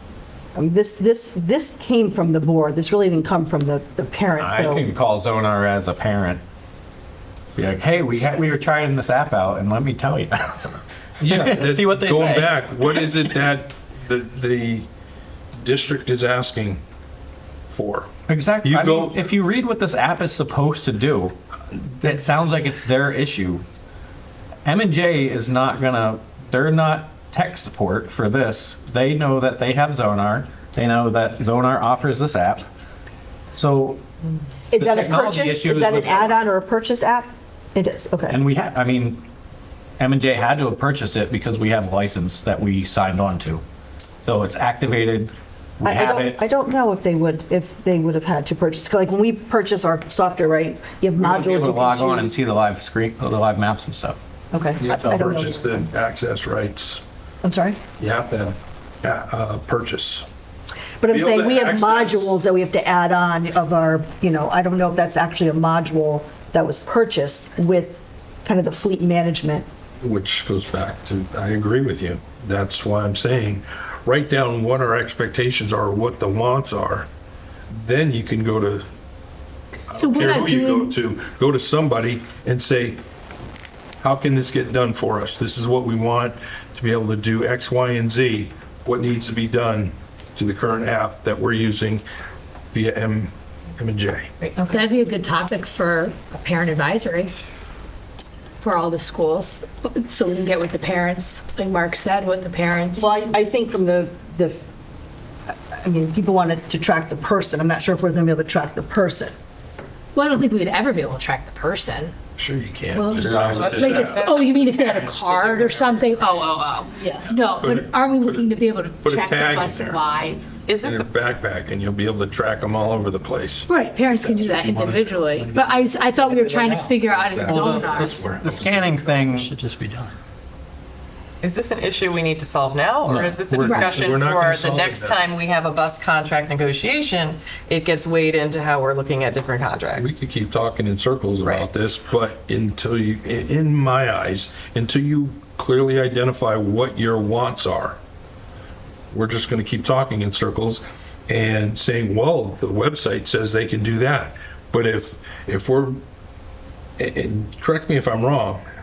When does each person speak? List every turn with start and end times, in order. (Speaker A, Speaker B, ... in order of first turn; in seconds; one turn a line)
Speaker A: 0.5-4.8
Speaker B: 4.4-6.4
Speaker B: 7.5-13.3
Speaker C: 11.2-14.9
Speaker C: 15.6-16.8
Speaker C: 17.7-18.1
Speaker B: 18.3-23.6
Speaker C: 18.6-19.2
Speaker B: 24.6-32.7
Speaker B: 33.5-34.0
Speaker A: 34.7-38.4
Speaker B: 34.8-36.4
Speaker B: 38.3-39.2
Speaker B: 40.0-43.6
Speaker B: 44.2-46.4
Speaker A: 45.8-52.4
Speaker B: 51.2-54.2
Speaker A: 54.5-55.9
Speaker C: 54.8-57.0
Speaker A: 57.4-57.8
Speaker C: 58.0-60.2
Speaker A: 61.0-69.7
Speaker C: 61.1-62.3
Speaker C: 70.0-77.1
Speaker C: 77.7-78.8
Speaker C: 79.9-83.0
Speaker D: 80.0-81.0
Speaker C: 84.0-92.0
Speaker C: 92.7-94.3
Speaker D: 94.5-97.3
Speaker A: 94.6-94.8
Speaker D: 98.6-103.1
Speaker A: 103.0-104.6
Speaker A: 105.5-109.3
Speaker D: 110.1-112.1
Speaker C: 112.3-114.3
Speaker A: 112.9-113.3
Speaker B: 113.2-113.7
Speaker E: 113.5-116.4
Speaker D: 113.7-120.5
Speaker C: 117.2-120.0
Speaker E: 120.7-121.1
Speaker C: 120.8-125.2
Speaker D: 123.7-128.2
Speaker F: 124.4-127.0
Speaker C: 127.2-128.8
Speaker B: 127.4-129.5
Speaker F: 128.5-130.2
Speaker E: 131.4-140.1
Speaker B: 133.1-133.9
Speaker D: 133.6-133.9
Speaker C: 133.7-135.2
Speaker C: 139.9-148.0
Speaker E: 141.4-141.7
Speaker C: 149.1-156.0
Speaker C: 157.0-158.6